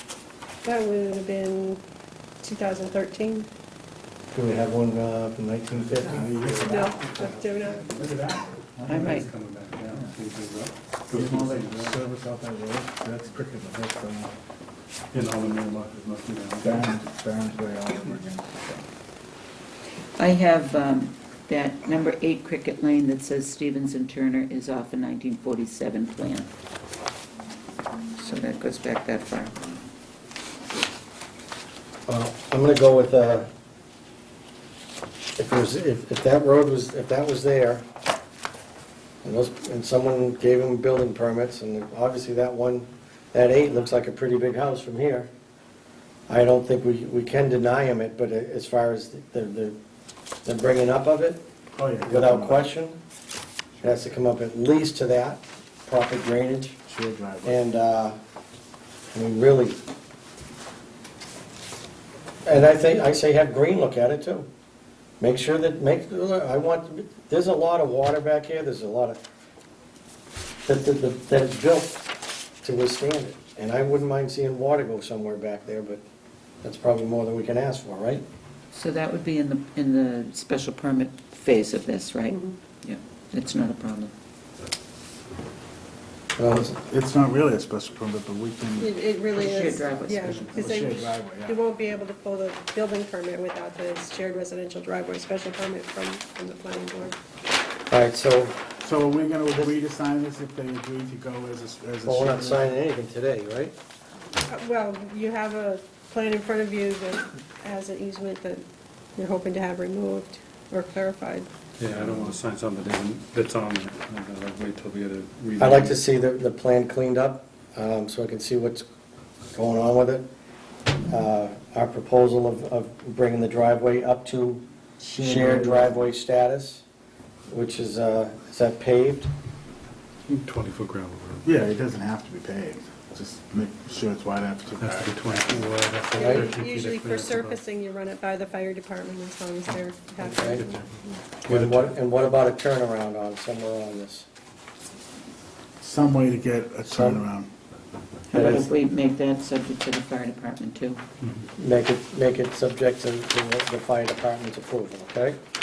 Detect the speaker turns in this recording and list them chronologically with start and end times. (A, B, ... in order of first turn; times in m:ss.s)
0:00.6-0:01.8 A
0:02.4-0:03.5 A
0:04.3-0:06.6 B
0:06.0-0:09.2 C
0:06.7-0:07.8 A
0:08.8-0:12.0 D
0:08.9-0:09.3 E
0:09.8-0:10.1 C
0:11.1-0:14.3 C
0:15.1-0:16.9 D
0:16.6-0:18.8 C
0:20.2-0:26.5 E
0:28.2-0:29.5 E
0:32.1-0:33.5 B
0:35.4-0:37.8 B
0:39.2-0:45.3 B
0:46.3-0:49.8 B
0:50.4-0:51.5 B
0:51.8-0:52.7 C
0:52.1-0:53.0 B
0:53.8-0:56.8 B
0:56.9-0:57.6 C
0:57.4-0:58.2 B
0:59.1-0:59.8 B
1:02.4-1:04.5 B
1:05.2-1:09.2 B
1:10.7-1:12.1 B
1:12.6-1:16.0 B
1:16.6-1:18.2 B
1:18.7-1:24.1 E
1:22.3-1:22.6 A
1:26.4-1:26.8 B
1:26.4-1:28.9 C
1:28.8-1:37.2 A
1:29.3-1:30.7 E
1:30.5-1:31.6 C
1:37.9-1:38.6 B
1:38.8-1:42.8 C
1:42.0-1:43.8 B
1:44.5-1:48.6 A
1:49.2-1:51.5 A
1:51.8-1:56.0 D
1:55.6-1:58.8 B
1:59.5-2:00.3 B
2:01.0-2:04.6 B
2:05.0-2:06.0 C
2:05.2-2:06.8 B
2:07.5-2:09.3 B
2:10.3-2:11.5 D
2:11.4-2:15.7 C
2:14.8-2:17.6 D
2:16.1-2:21.1 A
2:16.2-2:16.5 B
2:20.2-2:20.6 B
2:20.5-2:20.8 D
2:21.4-2:24.2 B
2:21.4-2:21.9 D
2:25.8-2:27.5 C
2:26.8-2:27.2 B
2:28.3-2:31.0 E
2:28.3-2:28.7 B
2:31.2-2:31.5 D
2:31.6-2:35.4 B